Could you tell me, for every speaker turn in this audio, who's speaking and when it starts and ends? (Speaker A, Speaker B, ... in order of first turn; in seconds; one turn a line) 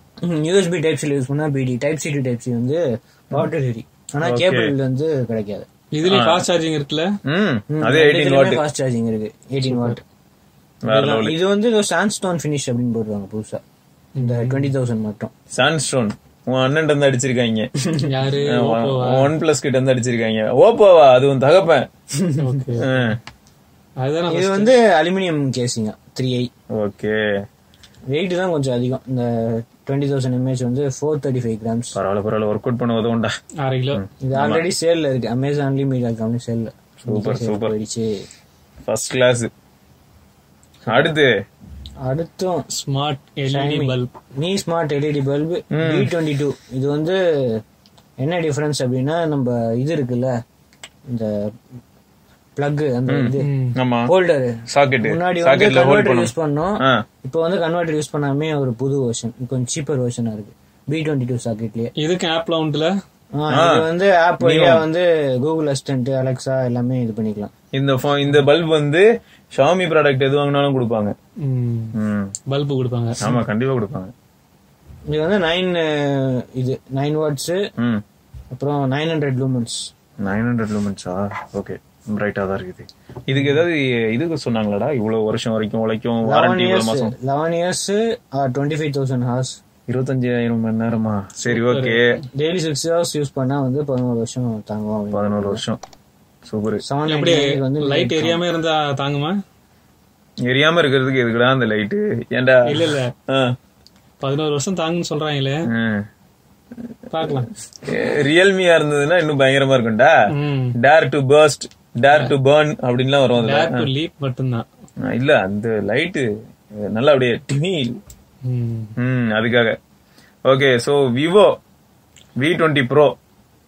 Speaker A: 0.2-5.7
Speaker B: 4.2-4.7
Speaker C: 5.9-7.1
Speaker B: 6.0-6.5
Speaker B: 7.2-8.6
Speaker A: 7.7-10.0
Speaker C: 9.7-9.9
Speaker B: 10.8-11.3
Speaker A: 10.9-13.6
Speaker C: 14.2-14.7
Speaker A: 14.2-15.3
Speaker B: 15.5-17.7
Speaker C: 18.0-19.3
Speaker B: 18.5-21.9
Speaker C: 22.4-23.0
Speaker B: 22.8-23.2
Speaker C: 24.0-24.7
Speaker A: 24.3-26.5
Speaker B: 26.8-27.2
Speaker A: 28.1-31.9
Speaker B: 31.9-33.3
Speaker C: 33.6-34.0
Speaker B: 33.9-34.6
Speaker A: 34.2-38.1
Speaker B: 37.0-37.7
Speaker B: 38.9-39.5
Speaker B: 40.9-41.3
Speaker A: 42.1-42.6
Speaker C: 42.7-44.1
Speaker A: 43.5-47.6
Speaker B: 45.7-46.1
Speaker A: 48.2-50.3
Speaker A: 52.6-53.5
Speaker B: 53.1-54.1
Speaker C: 53.4-53.8
Speaker A: 54.1-61.9
Speaker B: 54.7-56.3
Speaker C: 62.0-62.9
Speaker A: 63.4-67.5
Speaker B: 63.5-63.8
Speaker B: 64.4-64.8
Speaker B: 67.7-71.1
Speaker C: 71.4-71.9
Speaker B: 71.9-72.3
Speaker C: 72.5-73.3
Speaker B: 73.2-74.1
Speaker A: 75.1-77.6
Speaker A: 78.5-79.9
Speaker B: 80.2-87.1
Speaker C: 83.4-83.6
Speaker A: 86.2-89.6
Speaker B: 89.9-92.0
Speaker C: 91.5-92.2
Speaker A: 92.4-95.6
Speaker B: 95.1-95.8
Speaker B: 96.5-96.8
Speaker A: 96.8-98.4
Speaker C: 97.1-99.3
Speaker B: 100.5-103.5
Speaker C: 102.7-103.1
Speaker C: 104.2-105.6
Speaker B: 105.7-106.0
Speaker C: 107.1-107.5
Speaker B: 107.8-110.1
Speaker C: 110.3-110.8
Speaker B: 110.8-113.9
Speaker C: 113.3-114.6
Speaker B: 115.0-116.3
Speaker B: 116.8-118.0
Speaker C: 118.5-118.9
Speaker B: 119.0-119.7
Speaker B: 120.4-121.5
Speaker B: 122.4-123.1